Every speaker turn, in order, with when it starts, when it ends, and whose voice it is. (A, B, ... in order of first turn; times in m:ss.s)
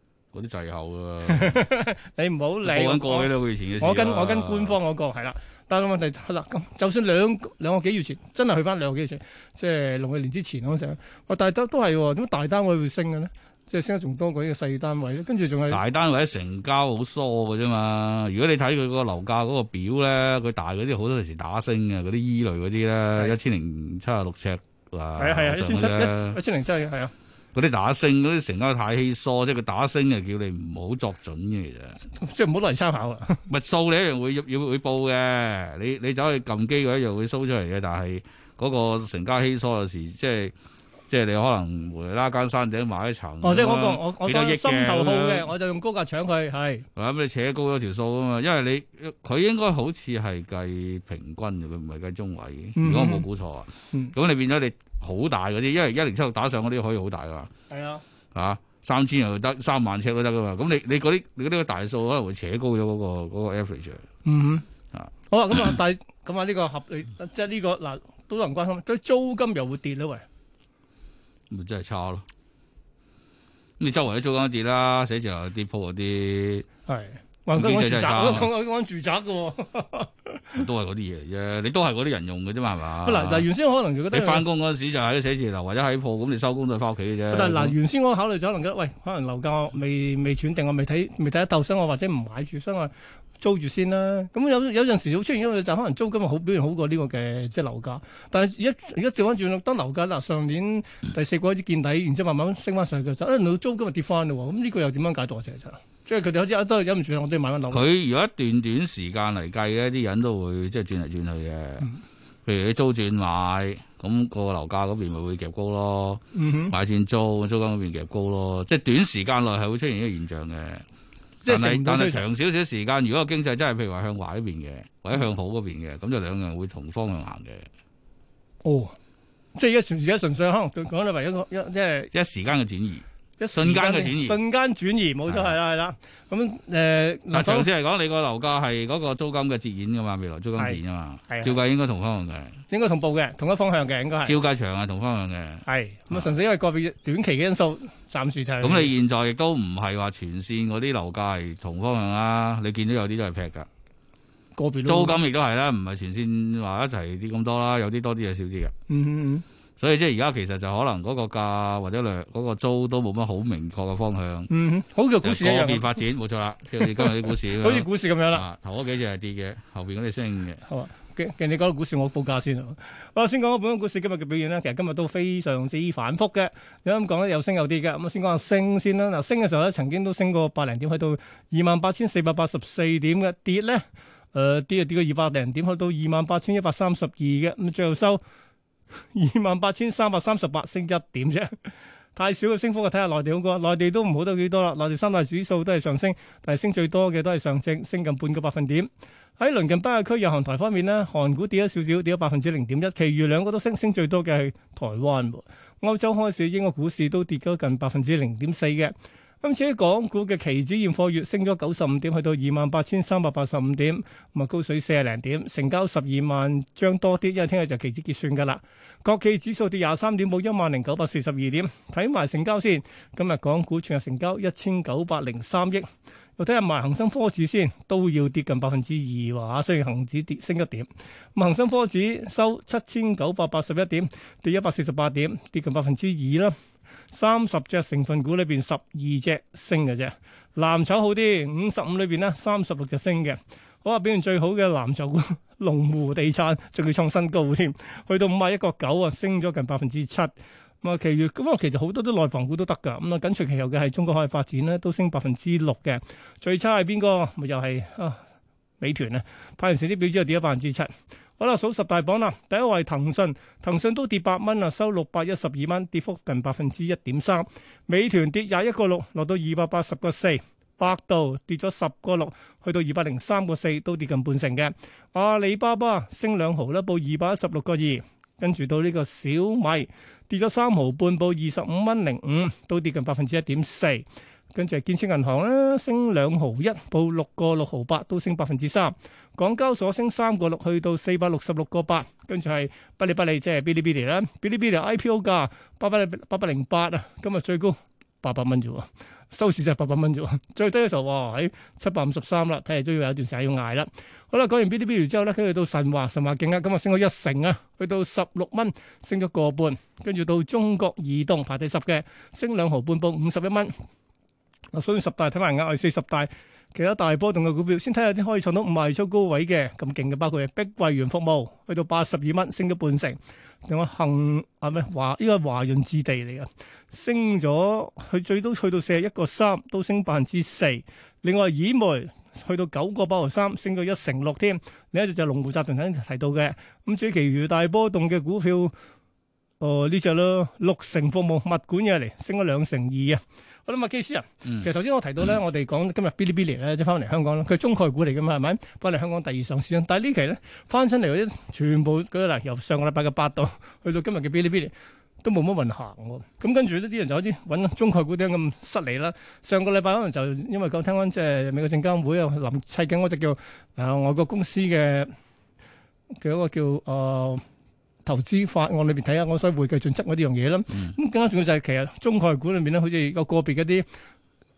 0:00.3-0:01.6 A
0:01.3-0:15.8 B
0:02.6-0:04.8 A
0:15.7-0:26.4 A
0:25.2-0:27.1 B
0:27.5-0:32.0 A
0:32.1-0:33.4 B
0:33.5-0:40.5 A
0:41.1-0:45.5 A
0:43.4-0:46.8 B
0:47.0-0:57.5 A
0:52.8-0:53.2 B
0:57.7-0:58.0 B
0:58.3-1:04.0 A
1:04.2-1:04.6 B
1:05.3-1:10.2 B
1:11.5-1:12.2 A
1:13.8-1:16.7 A
1:16.9-1:20.6 B
1:17.5-1:18.5 A
1:20.6-1:23.5 A
1:23.0-1:24.4 B
1:24.1-1:27.8 A
1:27.3-1:47.8 B
1:47.7-1:51.9 A
1:52.5-2:00.8 A
1:56.3-1:56.7 B
2:01.4-2:02.2 B
2:01.5-2:07.7 A
2:08.6-2:08.9 B
2:09.5-2:12.1 B
2:12.1-2:14.4 A
2:13.4-2:17.7 B
2:15.3-2:15.5 A
2:17.3-2:22.6 A
2:20.6-2:21.6 B
2:22.7-2:24.4 B
2:24.2-2:26.3 A
2:25.6-2:28.9 B
2:28.6-2:33.7 A
2:34.5-2:35.2 B
2:34.8-2:38.7 A
2:38.9-2:39.4 B
2:39.8-2:44.5 A
2:44.5-2:45.9 B
2:45.2-2:50.6 A
2:46.8-2:48.5 B
2:50.7-3:08.2 B
3:09.1-3:11.6 B
3:12.2-3:45.8 B
3:46.4-3:56.5 B
3:57.1-4:18.2 B
4:18.8-5:13.7 B
5:14.7-5:38.7 B
5:39.6-6:05.1 B
6:06.2-6:07.4 B
6:08.0-6:13.9 B